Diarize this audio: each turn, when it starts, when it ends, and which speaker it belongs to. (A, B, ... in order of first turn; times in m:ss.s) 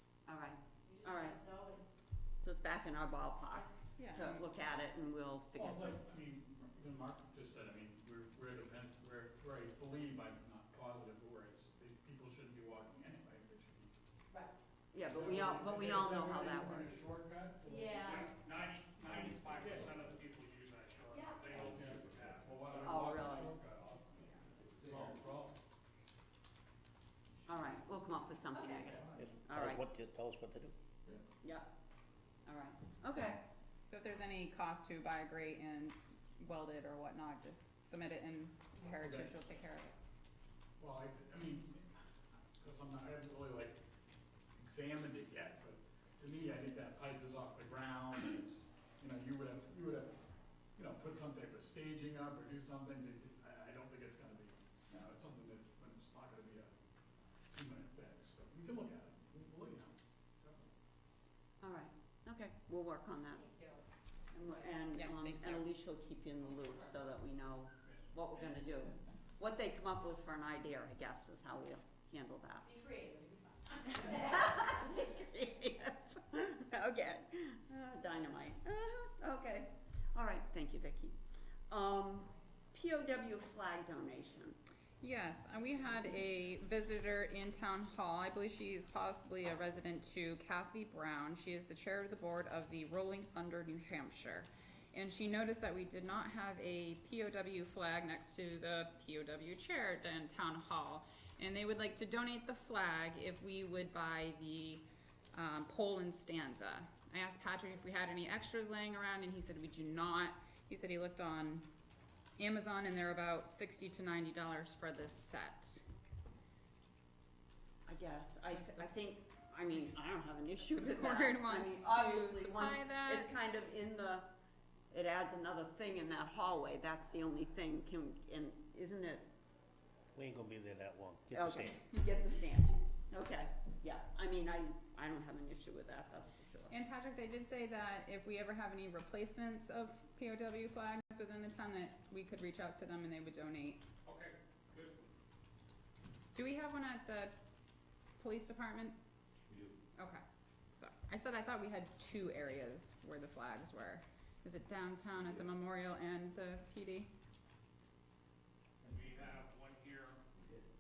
0:00.3-0:01.4 A
0:00.8-0:01.8 B
0:02.4-0:06.0 A
0:04.0-0:04.4 C
0:05.5-0:13.9 D
0:14.9-0:17.1 A
0:15.0-0:18.2 D
0:17.7-0:18.3 B
0:18.0-0:23.1 E
0:19.5-0:20.0 D
0:21.1-0:21.7 B
0:21.6-0:25.5 D
0:22.8-0:23.6 A
0:24.7-0:25.3 C
0:27.5-0:29.8 A
0:28.6-0:28.9 B
0:28.7-0:29.2 D
0:29.2-0:30.8 F
0:31.4-0:31.7 A
0:32.4-0:33.4 A
0:33.9-0:40.0 C
0:39.0-0:39.3 D
0:40.8-0:42.0 D
0:42.6-0:43.8 D
0:44.6-0:50.2 D
0:50.8-0:56.7 D
0:57.5-1:00.6 D
1:01.6-1:03.4 A
1:03.3-1:03.8 B
1:04.3-1:12.7 A
1:04.5-1:04.8 B
1:04.9-1:05.7 C
1:12.6-1:14.8 B
1:14.0-1:21.2 A
1:21.7-1:24.6 A
1:25.0-1:51.7 C
1:52.4-1:55.8 C
1:57.9-2:04.3 A
1:58.5-1:58.9 C
2:00.7-2:03.3 C
2:04.9-2:09.2 A
2:10.2-2:11.8 F
2:11.3-2:16.8 A
2:16.7-2:23.9 C
2:24.0-2:25.0 E
2:26.3-2:27.4 C
2:28.2-2:29.0 C
2:29.5-2:37.1 C
2:38.8-2:39.3 C
2:38.9-2:40.2 E